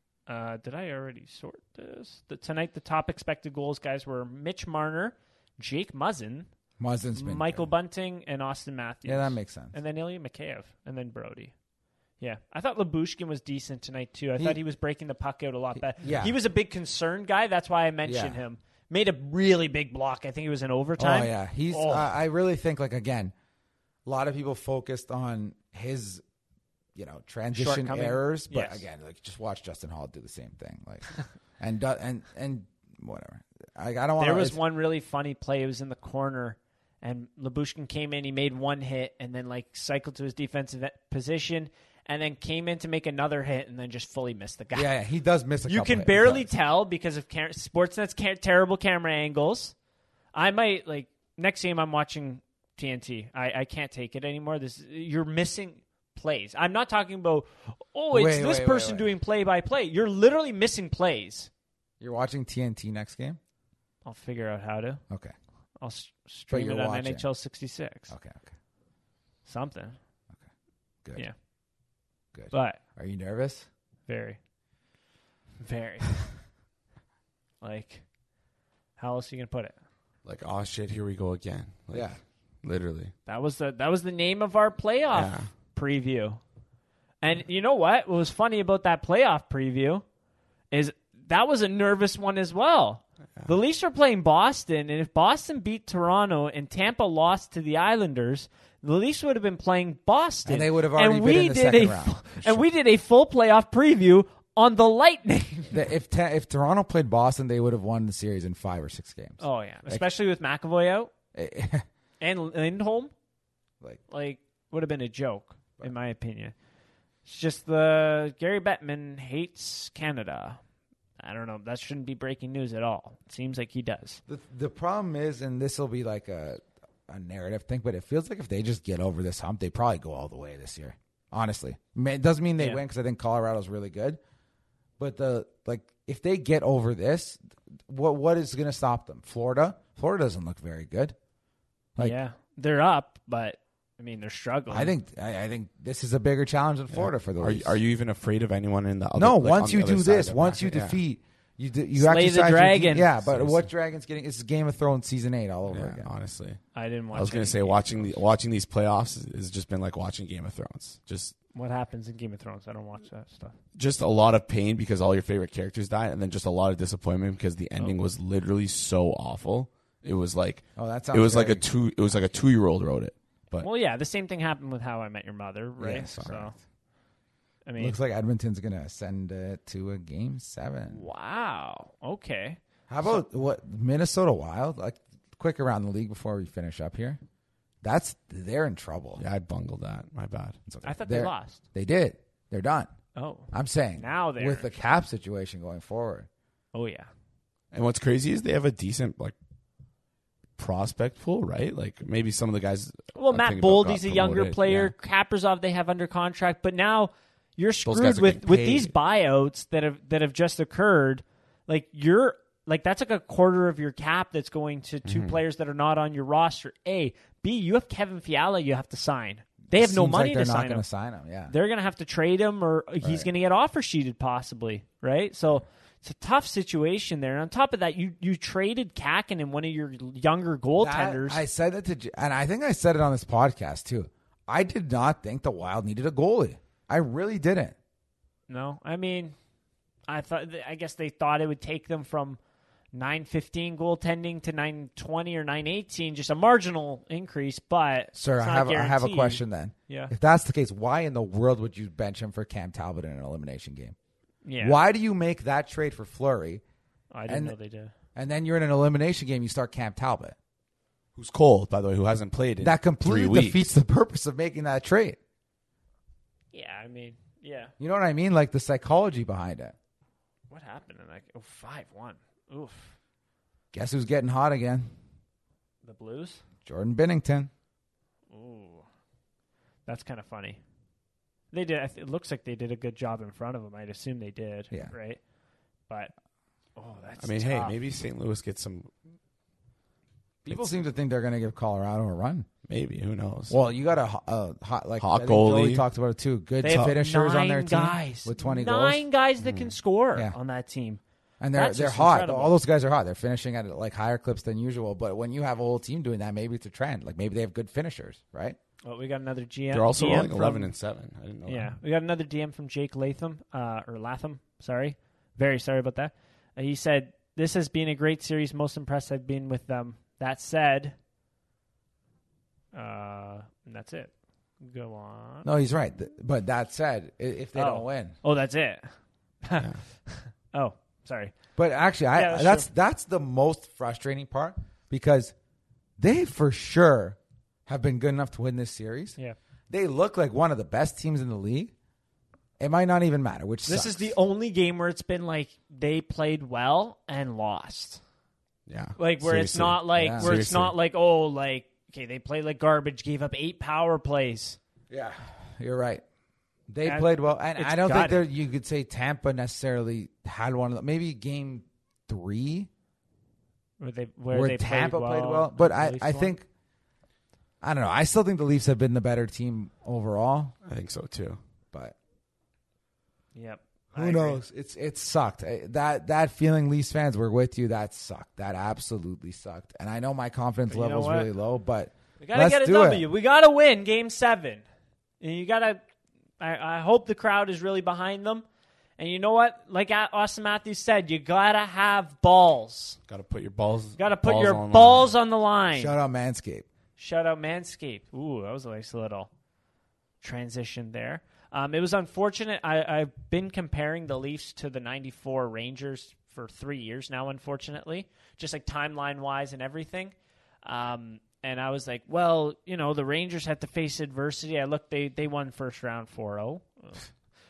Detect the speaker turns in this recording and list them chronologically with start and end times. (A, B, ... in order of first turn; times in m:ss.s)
0:00.3-0:06.5 A
0:06.8-0:07.7 B
0:07.1-0:11.5 A
0:09.0-0:09.7 B
0:12.2-0:22.1 A
0:15.8-0:16.3 B
0:18.0-0:18.4 B
0:21.0-0:23.3 B
0:24.0-0:26.2 B
0:26.9-0:34.6 B
0:27.5-0:28.8 A
0:34.2-0:44.9 A
0:44.7-0:46.5 B
0:45.7-0:49.7 A
0:50.3-1:01.5 A
0:58.1-0:59.1 B
1:02.0-1:03.4 B
1:04.0-1:05.0 A
1:05.1-1:05.3 B
1:05.8-1:08.1 A
1:06.5-1:07.2 B
1:08.1-1:08.5 B
1:09.4-1:10.0 A
1:12.3-1:13.7 B
1:12.5-1:12.8 A
1:14.1-1:14.4 A
1:15.6-1:16.2 A
1:17.6-1:18.0 A
1:19.0-1:19.7 A
1:20.2-1:23.1 C
1:21.9-1:22.2 B
1:23.3-1:26.4 A
1:25.1-1:25.5 C
1:27.2-1:30.0 A
1:30.7-1:45.8 A
1:40.4-1:42.6 B
1:45.7-1:50.1 B
1:49.4-1:51.1 A
1:51.3-1:51.8 B
1:52.2-1:53.1 A
1:54.1-1:56.5 A
1:57.2-2:00.6 A
2:01.2-2:04.2 A
2:04.3-2:14.2 B
2:15.0-2:21.1 B
2:22.0-2:24.9 A
2:24.7-2:27.8 B
2:26.9-2:31.0 C
2:29.2-2:36.1 B
2:32.0-2:33.1 A
2:33.2-2:33.7 C
2:35.7-2:41.3 C
2:36.7-2:38.2 A
2:41.5-2:43.6 A
2:43.7-2:53.7 C
2:50.8-2:51.6 B
2:53.6-2:56.6 A
2:55.8-2:56.6 B
2:57.6-2:58.0 A
2:57.8-3:01.0 B
3:00.9-3:03.2 A
3:02.9-3:07.2 B
3:07.8-3:09.2 B
3:09.2-3:10.6 C
3:10.7-3:12.9 B
3:10.8-3:11.6 A
3:13.1-3:14.7 A
3:13.5-3:16.3 B
3:16.7-3:17.1 A
3:17.7-3:19.3 C
3:20.6-3:24.9 C
3:23.1-3:40.8 A
3:27.8-3:28.9 C
3:35.0-3:35.4 C
3:39.7-3:41.5 B
3:41.5-3:51.4 A
3:43.0-3:43.3 B
3:50.8-3:57.8 B
3:58.5-3:59.4 A
4:00.1-4:02.4 A
4:02.9-4:10.1 A
4:08.1-4:13.9 B
4:14.4-4:14.8 A
4:14.6-4:16.6 B
4:17.1-4:17.9 A
4:17.3-4:17.6 B
4:18.1-4:20.4 B
4:21.2-4:23.6 C
4:22.6-4:25.2 B
4:26.5-4:27.7 A
4:27.8-4:29.7 B
4:30.5-4:32.9 A
4:33.7-4:34.9 B
4:35.8-4:36.4 A
4:36.6-4:37.5 B
4:38.3-4:38.8 A
4:39.8-4:40.6 A
4:41.5-4:45.2 A
4:46.8-4:47.8 A
4:47.2-4:48.9 C
4:50.4-4:52.5 B
4:52.7-4:53.6 C
4:53.5-4:59.0 B
4:55.0-4:55.8 C
4:56.6-5:01.0 A
4:56.6-4:56.9 C
4:59.4-4:59.7 C
5:01.4-5:08.6 B
5:01.5-5:02.6 A
5:08.8-5:10.7 A
5:09.7-5:11.7 C
5:11.4-5:21.0 A
5:22.7-5:25.5 A
5:25.4-5:28.2 B
5:27.5-5:31.3 A
5:31.6-5:35.3 B
5:32.1-5:32.7 A
5:36.0-5:39.2 B
5:39.7-5:41.7 B
5:42.6-5:44.1 B
5:43.6-5:48.0 A
5:48.7-5:50.7 C
5:49.0-5:54.6 A
5:50.0-5:50.3 B
5:54.9-5:56.0 B
5:56.7-6:02.7 B
5:56.8-5:58.2 A
6:03.8-6:06.4 A
6:04.3-6:06.4 B
6:07.6-6:10.5 B
6:10.6-6:11.4 C
6:13.3-6:14.4 A
6:13.9-6:23.1 B
6:20.7-6:21.3 A
6:22.2-6:24.6 A
6:25.2-6:25.8 A
6:26.4-6:28.4 A
6:29.0-6:33.0 A
6:33.1-6:35.1 C
6:34.0-6:35.9 A
6:35.7-6:36.7 B
6:37.0-6:39.3 A
6:40.2-6:57.0 A